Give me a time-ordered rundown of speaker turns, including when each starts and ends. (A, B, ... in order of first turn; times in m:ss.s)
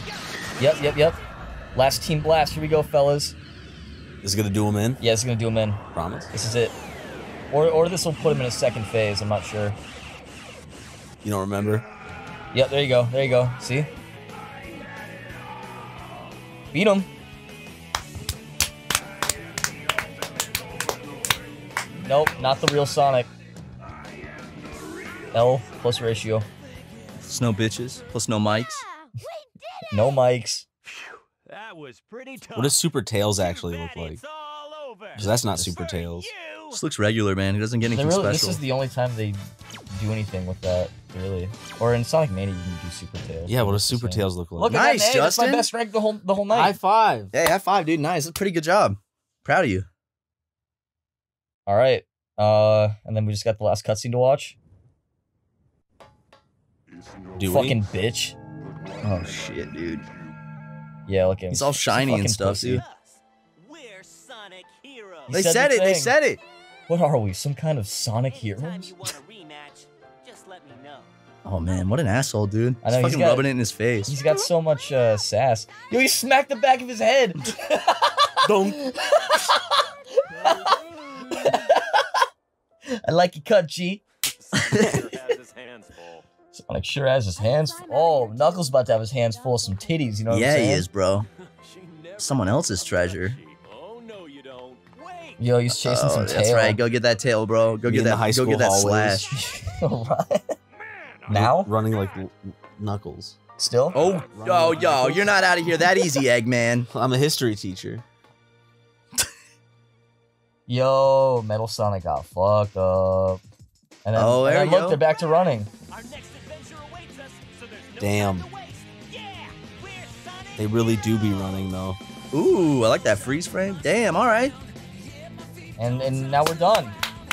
0:00.6-0:01.2 A
0:01.7-0:03.3 A
0:04.2-0:05.0 B
0:05.0-0:05.8 A
0:05.9-0:06.3 B
0:06.3-0:06.7 A
0:07.5-0:09.8 A
0:11.2-0:11.8 B
0:12.5-0:13.9 A
0:16.7-0:17.1 A
0:22.0-0:23.3 A
0:25.3-0:26.5 A
0:27.3-0:28.8 C
0:29.9-0:30.6 A
0:32.1-0:32.4 D
0:32.5-0:34.2 B
0:35.2-0:35.8 A
0:35.2-0:36.3 B
0:36.7-0:38.6 C
0:37.9-0:46.8 A
0:43.5-0:44.8 B
0:44.7-0:45.7 C
0:46.5-0:47.3 B
0:47.3-0:49.9 C
0:51.7-0:54.6 A
0:57.4-0:57.8 B
0:57.5-0:58.3 A
0:59.0-1:00.1 C
1:01.1-1:02.8 A
1:01.5-1:02.8 C
1:03.7-1:05.3 D
1:05.3-1:06.1 A
1:05.3-1:06.4 C
1:06.9-1:09.0 A
1:08.9-1:11.1 D
1:11.4-1:14.1 C
1:12.8-1:13.5 A
1:14.1-1:20.7 A
1:18.4-1:18.8 B
1:21.3-1:22.0 A
1:22.9-1:24.0 A
1:24.5-1:25.2 A
1:26.5-1:30.8 A
1:30.3-1:31.3 C
1:32.2-1:33.4 C
1:35.4-1:36.8 A
1:35.8-1:39.3 C
1:37.8-1:39.3 B
1:39.3-1:40.6 A
1:41.3-1:41.7 A
1:41.3-1:43.4 B
1:43.6-1:43.9 A
1:43.9-1:46.9 C
1:44.1-1:45.4 B
1:46.9-1:48.0 B
1:50.7-1:53.4 A
1:54.0-1:55.7 A
1:54.1-1:55.0 C
1:58.0-1:58.5 B
2:00.6-2:02.0 B
2:02.3-2:04.5 C
2:05.8-2:07.0 A